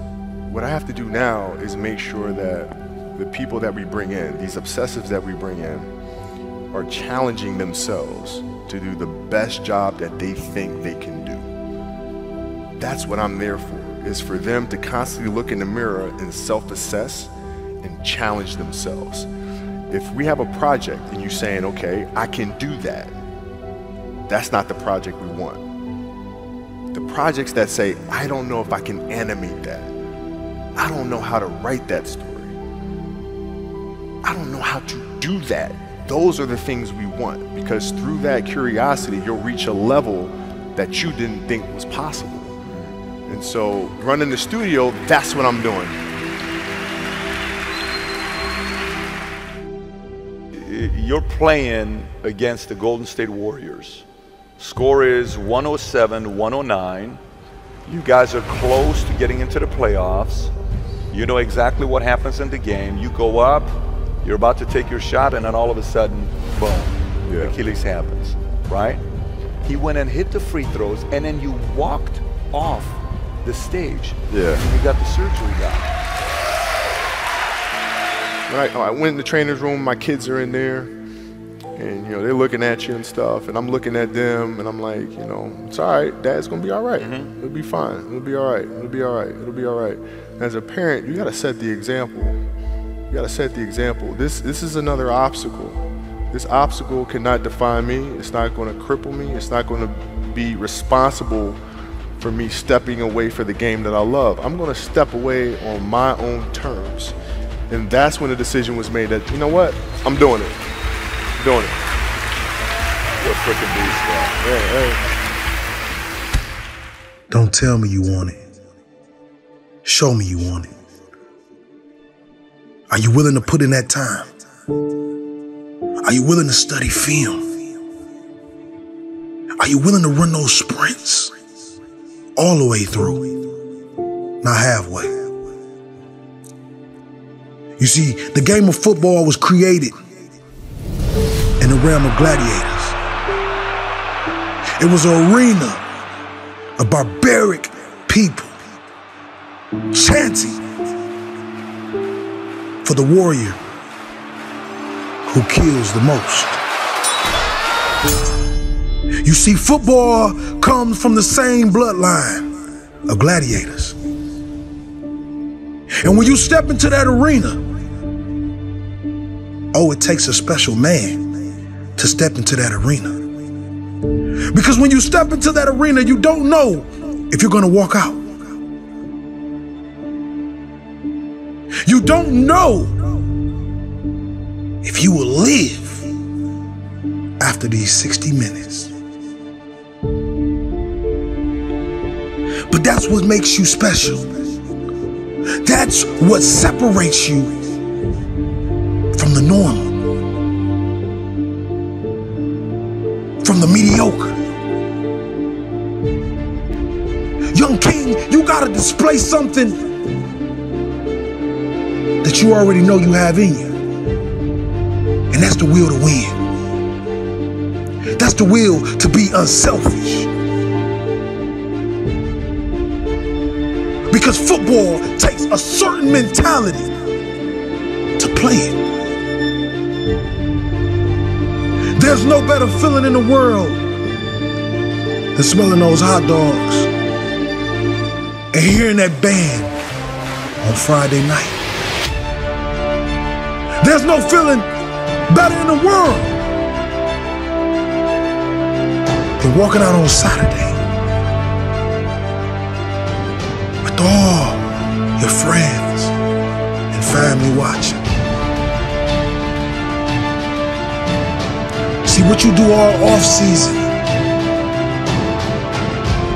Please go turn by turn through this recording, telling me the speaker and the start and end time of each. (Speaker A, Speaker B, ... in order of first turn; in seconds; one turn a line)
Speaker A: 0.5-5.9
Speaker A: 6.7-11.5
Speaker A: 12.8-17.3
Speaker A: 17.8-19.3
Speaker A: 19.9-23.1
Speaker A: 24.3-25.6
Speaker A: 26.9-29.9
Speaker A: 30.8-32.6
Speaker A: 34.2-42.5
Speaker B: 42.6-43.0
Speaker A: 43.3-46.0
Speaker B: 50.5-54.0
Speaker B: 54.6-57.2
Speaker B: 57.9-60.5
Speaker B: 61.1-69.0
Speaker A: 67.3-67.6
Speaker B: 69.6-75.9
Speaker A: 74.3-74.6
Speaker A: 78.5-80.9
Speaker A: 81.8-92.4
Speaker B: 87.0-87.3
Speaker A: 93.1-101.6
Speaker A: 102.2-107.1
Speaker A: 107.7-110.6
Speaker A: 111.4-111.8
Speaker B: 113.2-114.3
Speaker A: 114.4-115.0
Speaker C: 117.3-118.4
Speaker C: 119.8-120.7
Speaker C: 122.9-124.3
Speaker C: 126.0-127.4
Speaker C: 129.6-131.3
Speaker C: 132.3-133.3
Speaker C: 134.4-135.2
Speaker C: 137.8-139.9
Speaker C: 141.6-143.0
Speaker C: 144.8-145.8
Speaker C: 146.8-148.5
Speaker C: 149.9-150.6
Speaker C: 152.8-153.6
Speaker C: 155.2-156.6
Speaker C: 159.2-162.5
Speaker C: 163.1-164.0
Speaker C: 166.0-167.6
Speaker C: 169.7-171.2
Speaker C: 171.9-173.2
Speaker C: 174.5-178.2
Speaker C: 181.8-182.9
Speaker C: 184.8-186.1
Speaker C: 187.4-188.9
Speaker C: 192.7-194.3
Speaker C: 195.6-197.6
Speaker C: 199.1-200.0
Speaker C: 203.4-204.4
Speaker C: 207.5-209.8
Speaker C: 212.2-213.7
Speaker C: 215.3-216.4
Speaker C: 218.2-220.3
Speaker C: 224.1-226.9
Speaker C: 228.2-228.8
Speaker C: 231.9-233.8
Speaker C: 235.3-236.9
Speaker C: 238.5-239.7
Speaker C: 240.6-241.6
Speaker C: 243.8-244.7
Speaker C: 245.3-246.4
Speaker C: 249.4-250.8
Speaker C: 253.8-254.6
Speaker C: 255.2-256.1
Speaker C: 256.9-258.0
Speaker C: 262.0-263.9